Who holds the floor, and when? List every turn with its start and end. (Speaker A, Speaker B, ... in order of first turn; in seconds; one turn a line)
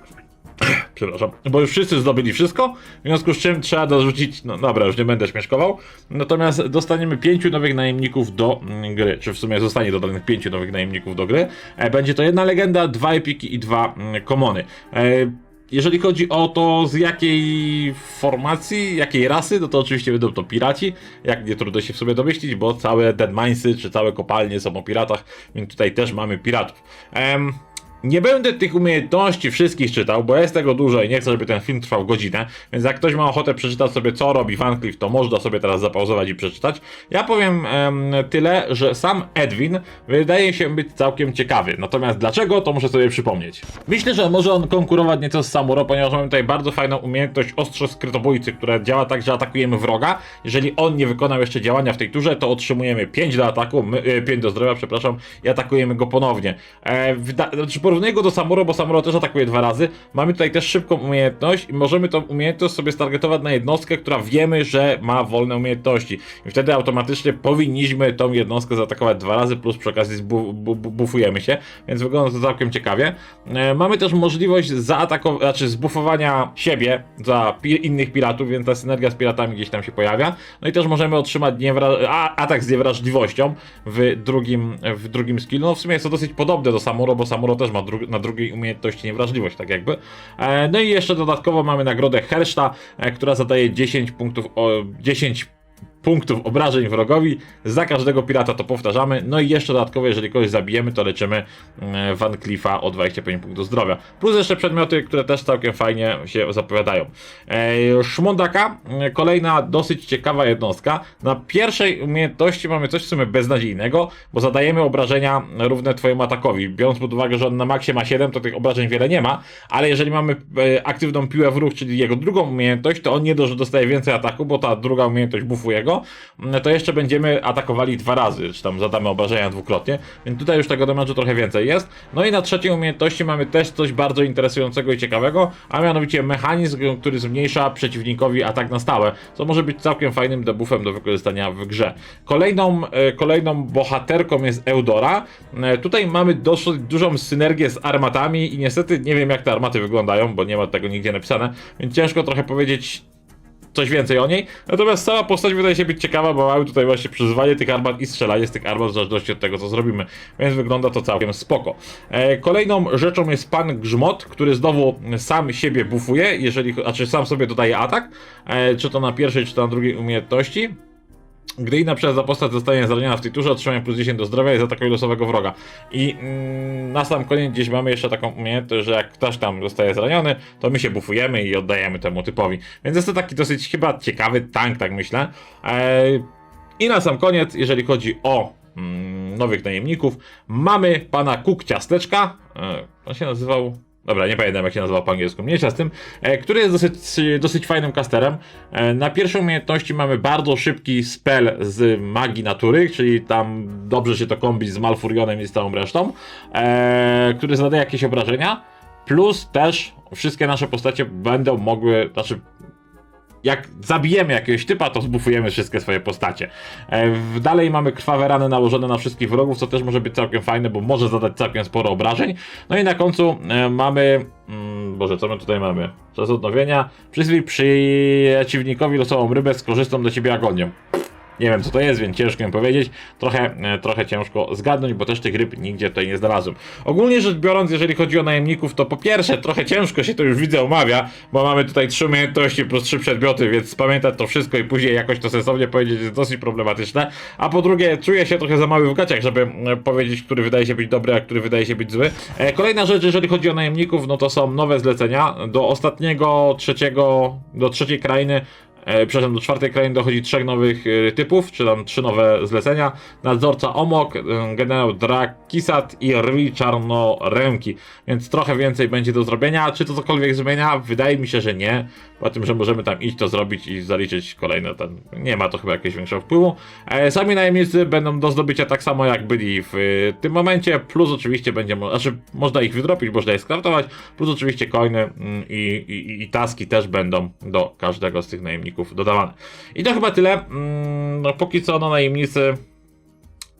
Speaker A: 0.6-95.5
Speaker A: 96.0-153.0
Speaker A: 153.7-170.7
Speaker A: 171.6-186.2
Speaker A: 186.8-212.4
Speaker A: 213.4-230.8
Speaker A: 231.4-292.6